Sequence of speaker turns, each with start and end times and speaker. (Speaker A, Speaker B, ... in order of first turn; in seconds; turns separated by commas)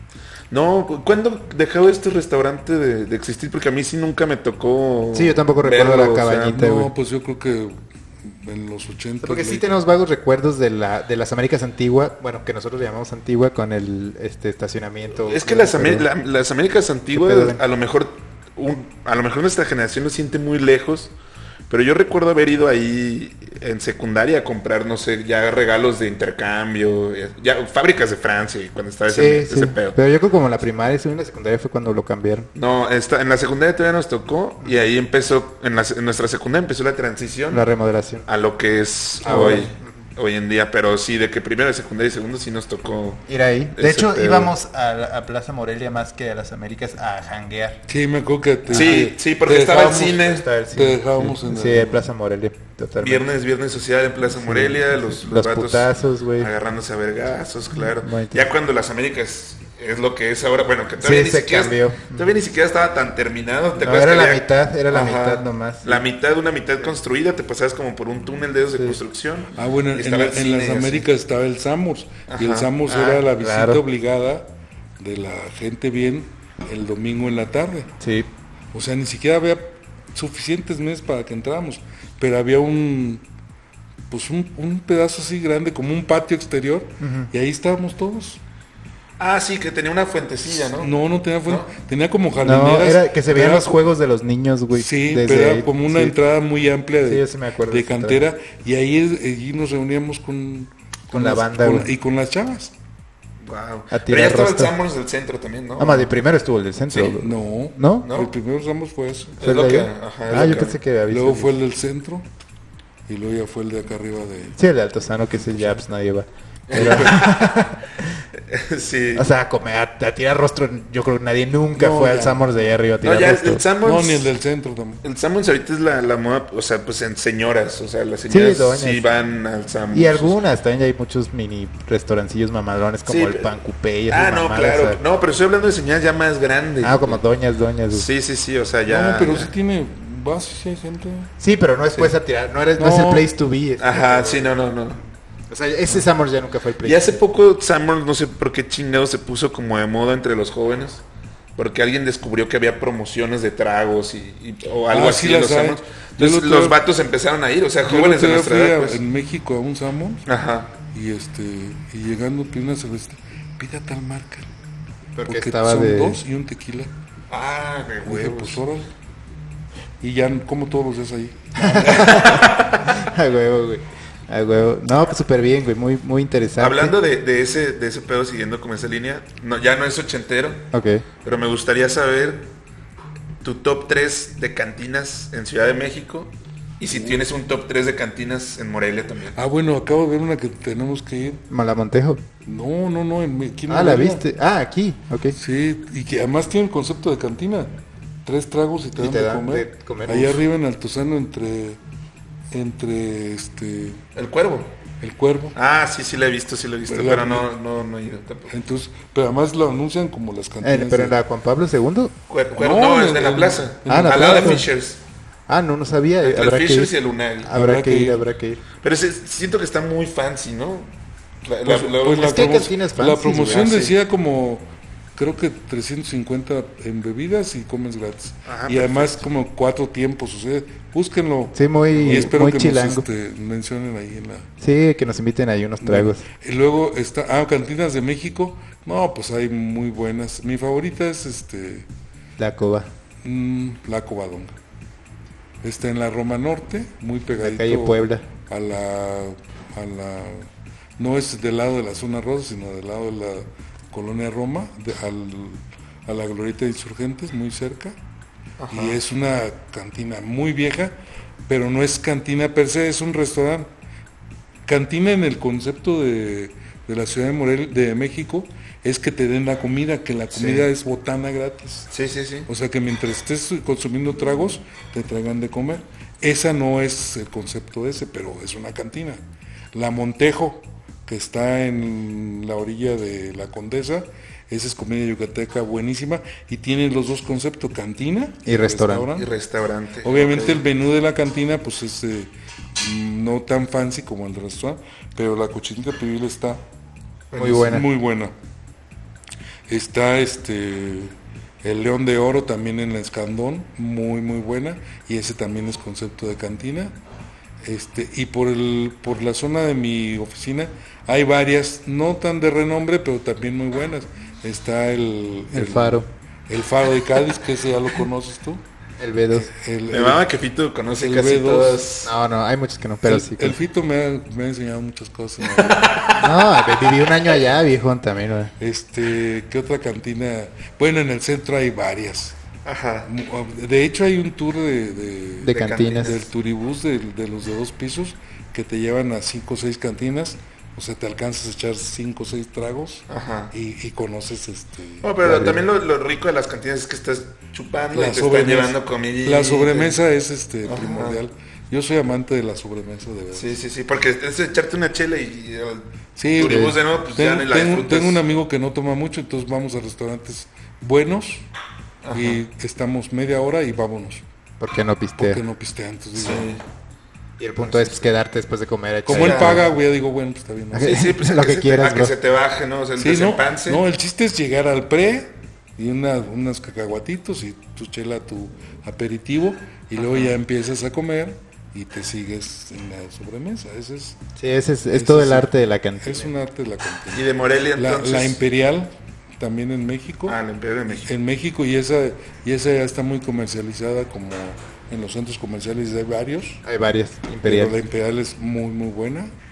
Speaker A: 0.5-6.6, Speaker B: 5.1-6.9, Speaker C: 6.5-9.7, Speaker B: 9.2-16.1, Speaker A: 15.2-21.1, Speaker B: 17.1-17.6, Speaker A: 21.7-30.0, Speaker B: 29.1-32.5, Speaker A: 32.5-37.6, Speaker B: 37.5-38.3, Speaker A: 38.3-43.2, Speaker B: 39.2-39.9, Speaker B: 43.3-47.8, Speaker A: 43.8-44.5, Speaker C: 47.9-52.0, Speaker B: 48.7-49.1, Speaker A: 48.7-50.5, Speaker B: 50.3-53.3, Speaker A: 53.0-71.1, Speaker B: 54.4-56.5, Speaker B: 58.0-58.5, Speaker B: 61.0-62.3, Speaker B: 63.8-66.0, Speaker C: 69.6-77.9, Speaker A: 72.3-72.7, Speaker B: 72.9-73.8, Speaker B: 78.0-78.3, Speaker C: 78.7-83.2, Speaker C: 84.1-88.4, Speaker B: 87.0-87.3, Speaker A: 89.2-90.9, Speaker C: 90.5-93.8, Speaker B: 92.4-96.2, Speaker C: 94.7-102.7, Speaker B: 97.0-98.2, Speaker B: 101.1-101.9, Speaker A: 103.4-106.2, Speaker B: 103.9-104.7, Speaker B: 105.8-108.1, Speaker C: 107.1-109.4, Speaker A: 108.0-108.3, Speaker A: 109.4-110.8, Speaker B: 109.4-111.5, Speaker C: 110.4-112.3, Speaker C: 113.1-114.6, Speaker B: 114.6-118.1, Speaker C: 115.5-115.8, Speaker A: 116.7-117.8, Speaker A: 118.3-119.3, Speaker B: 119.1-123.7, Speaker C: 121.8-122.7, Speaker A: 123.0-124.3, Speaker C: 123.8-125.0, Speaker A: 125.0-130.4, Speaker B: 128.3-129.1, Speaker B: 129.9-135.0, Speaker A: 133.1-133.5, Speaker A: 134.1-137.2, Speaker B: 136.8-138.1, Speaker A: 137.9-139.5, Speaker C: 138.9-141.3, Speaker B: 141.4-144.6, Speaker C: 142.8-143.3, Speaker A: 143.8-145.0, Speaker B: 145.5-147.2, Speaker A: 146.8-151.0, Speaker A: 151.6-159.0, Speaker C: 154.9-156.8, Speaker C: 157.9-160.2, Speaker A: 160.3-160.7, Speaker C: 160.9-164.5, Speaker B: 165.2-166.2, Speaker C: 165.3-166.9, Speaker A: 167.3-168.6, Speaker C: 168.1-168.9, Speaker C: 170.0-172.3, Speaker B: 171.6-177.0, Speaker A: 171.9-173.0, Speaker A: 176.6-180.7, Speaker B: 180.7-181.1, Speaker A: 181.2-182.5, Speaker A: 183.4-189.4, Speaker C: 189.4-191.4, Speaker B: 191.5-192.2, Speaker C: 192.4-194.2, Speaker B: 193.7-195.4, Speaker C: 195.4-197.7, Speaker C: 198.2-201.8, Speaker B: 199.0-200.4, Speaker C: 202.5-204.0, Speaker A: 204.2-204.7, Speaker C: 205.0-205.6, Speaker A: 205.6-208.5, Speaker C: 206.9-207.5, Speaker C: 208.5-211.2, Speaker B: 210.6-212.1, Speaker A: 212.3-215.0, Speaker C: 212.6-214.6, Speaker B: 213.9-214.7, Speaker B: 215.5-218.6, Speaker A: 216.2-217.5, Speaker C: 217.5-218.3, Speaker A: 218.8-220.9, Speaker A: 221.4-222.6, Speaker C: 221.7-234.5, Speaker B: 222.2-223.9, Speaker A: 223.6-223.8, Speaker A: 228.5-229.2, Speaker B: 231.6-233.1, Speaker A: 231.9-232.3, Speaker B: 234.6-236.2, Speaker C: 235.8-241.9, Speaker B: 242.4-242.9, Speaker C: 243.2-244.5, Speaker C: 245.6-258.0, Speaker B: 247.4-248.2, Speaker A: 258.6-259.0, Speaker C: 258.7-260.9, Speaker C: 261.5-263.7, Speaker C: 264.7-271.9, Speaker A: 270.3-270.7, Speaker A: 271.9-272.5, Speaker C: 272.5-279.2, Speaker C: 279.7-289.3, Speaker B: 288.4-289.1, Speaker A: 289.1-290.6, Speaker C: 290.0-296.6, Speaker A: 297.3-297.7, Speaker B: 297.3-297.9, Speaker C: 297.4-298.3, Speaker C: 299.7-306.9, Speaker C: 307.6-318.6, Speaker B: 315.5-316.1, Speaker B: 319.0-319.5, Speaker C: 319.3-320.3, Speaker A: 319.9-322.1, Speaker C: 320.9-321.9, Speaker B: 322.0-323.6, Speaker C: 323.0-326.1, Speaker A: 325.4-327.2, Speaker B: 326.1-328.5, Speaker C: 328.6-332.4, Speaker A: 332.6-333.1, Speaker C: 333.1-345.3, Speaker B: 335.4-336.1, Speaker A: 335.5-336.3, Speaker A: 343.1-343.5, Speaker A: 345.0-350.0, Speaker B: 345.2-345.6, Speaker C: 347.9-353.5, Speaker A: 350.6-351.2, Speaker A: 353.3-358.2, Speaker C: 356.2-361.5, Speaker B: 356.4-356.8, Speaker A: 362.0-362.4, Speaker C: 362.1-364.2, Speaker B: 364.6-365.4, Speaker C: 365.2-366.5, Speaker A: 366.1-366.6, Speaker B: 367.4-369.7, Speaker A: 367.6-368.1, Speaker C: 369.1-371.0, Speaker A: 369.1-369.7, Speaker B: 370.7-372.1, Speaker A: 370.8-373.8, Speaker C: 373.0-384.2, Speaker A: 380.0-380.4, Speaker B: 384.4-386.3, Speaker C: 384.9-385.5, Speaker C: 386.0-390.4, Speaker A: 387.1-388.4, Speaker A: 390.3-391.1, Speaker C: 391.1-396.6, Speaker B: 396.6-397.8, Speaker C: 397.4-399.3